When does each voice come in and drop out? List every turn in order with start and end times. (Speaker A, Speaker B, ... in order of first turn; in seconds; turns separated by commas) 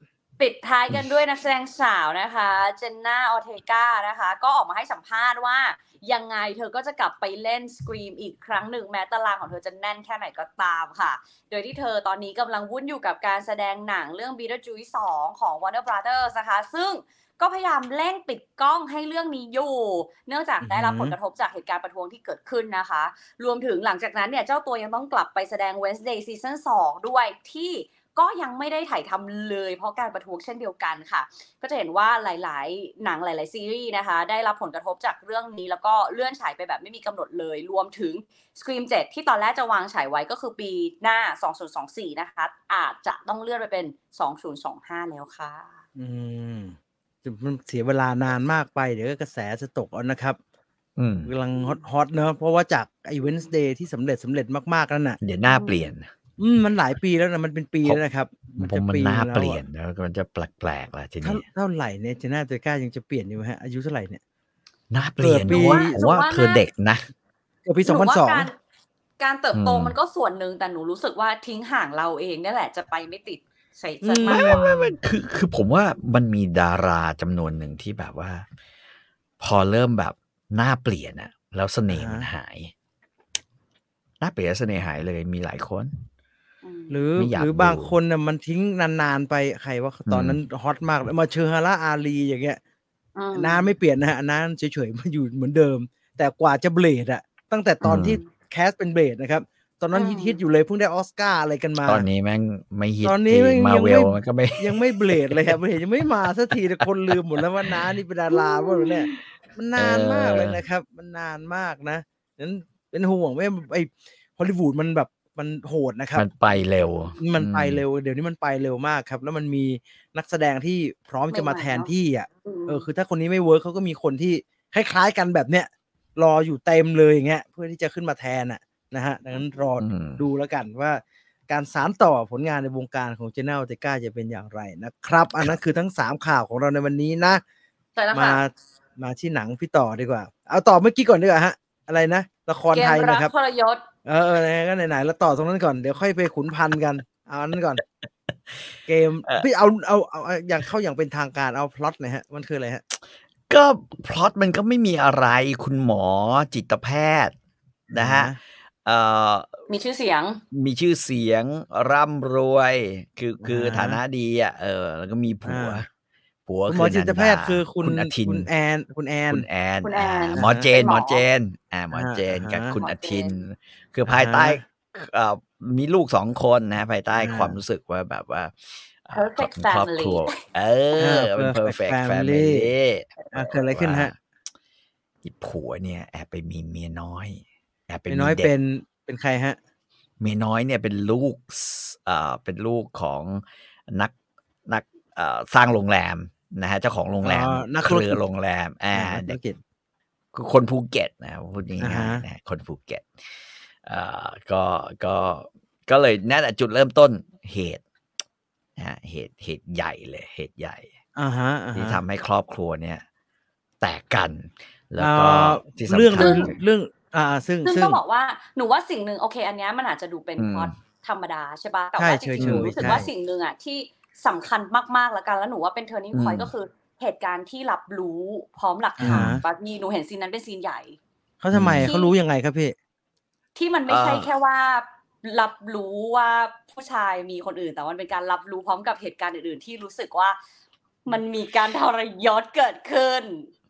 Speaker A: 0.4-45.7, Speaker B: 20.6-21.1, Speaker B: 46.0-50.4, Speaker C: 51.0-51.3, Speaker B: 51.2-55.2, Speaker C: 55.2-56.1, Speaker A: 55.5-55.9, Speaker B: 56.4-59.6, Speaker C: 58.6-61.4, Speaker B: 61.2-64.2, Speaker C: 64.9-67.0, Speaker B: 65.2-66.0, Speaker A: 65.5-66.6, Speaker B: 67.6-68.5, Speaker A: 67.8-68.5, Speaker A: 69.2-74.7, Speaker C: 69.5-69.9, Speaker B: 74.0-74.9, Speaker C: 74.3-78.5, Speaker C: 79.4-82.7, Speaker B: 81.9-82.3, Speaker C: 84.2-85.9, Speaker A: 86.6-87.0, Speaker B: 86.9-92.6, Speaker C: 87.2-87.9, Speaker C: 90.1-90.4, Speaker A: 93.2-93.7, Speaker B: 93.3-102.0, Speaker C: 97.8-98.2, Speaker A: 99.9-100.4, Speaker C: 101.8-105.5, Speaker B: 103.0-116.2, Speaker A: 108.3-109.1, Speaker C: 109.8-110.6, Speaker C: 116.1-117.8, Speaker B: 117.2-137.4, Speaker A: 121.3-121.9, Speaker A: 122.4-122.9, Speaker C: 129.8-130.2, Speaker A: 137.9-138.4, Speaker B: 138.1-143.3, Speaker A: 142.7-143.8, Speaker B: 144.1-147.8, Speaker B: 148.9-152.8, Speaker C: 153.5-157.3, Speaker C: 157.9-158.3, Speaker B: 157.9-158.4, Speaker C: 158.8-159.6, Speaker A: 159.7-160.4, Speaker C: 160.5-165.8, Speaker B: 163.4-164.0, Speaker B: 165.4-165.8, Speaker C: 166.5-168.5, Speaker B: 166.7-169.4, Speaker C: 169.3-184.1, Speaker A: 169.8-171.2, Speaker B: 170.3-170.7, Speaker B: 171.9-172.8, Speaker A: 172.8-173.3, Speaker B: 174.1-174.6, Speaker B: 177.2-177.6, Speaker A: 179.1-180.4, Speaker B: 181.0-182.7, Speaker B: 183.3-184.1, Speaker C: 185.2-188.5, Speaker B: 188.1-189.6, Speaker C: 190.2-194.1, Speaker C: 194.7-199.4, Speaker B: 197.2-198.2, Speaker B: 198.9-199.6, Speaker C: 200.3-207.8, Speaker B: 201.8-202.2, Speaker C: 208.8-210.9, Speaker B: 211.2-212.0, Speaker C: 211.7-213.0, Speaker C: 213.8-216.6, Speaker B: 215.0-218.0, Speaker A: 216.2-216.5, Speaker A: 217.6-231.0, Speaker C: 220.4-220.7, Speaker B: 222.0-223.1, Speaker C: 222.4-223.0, Speaker C: 226.1-226.5, Speaker B: 229.0-229.4, Speaker C: 229.0-229.4, Speaker B: 231.4-232.7, Speaker C: 231.5-231.9, Speaker A: 231.8-232.1, Speaker A: 233.5-240.4, Speaker C: 233.9-234.3, Speaker A: 241.1-243.5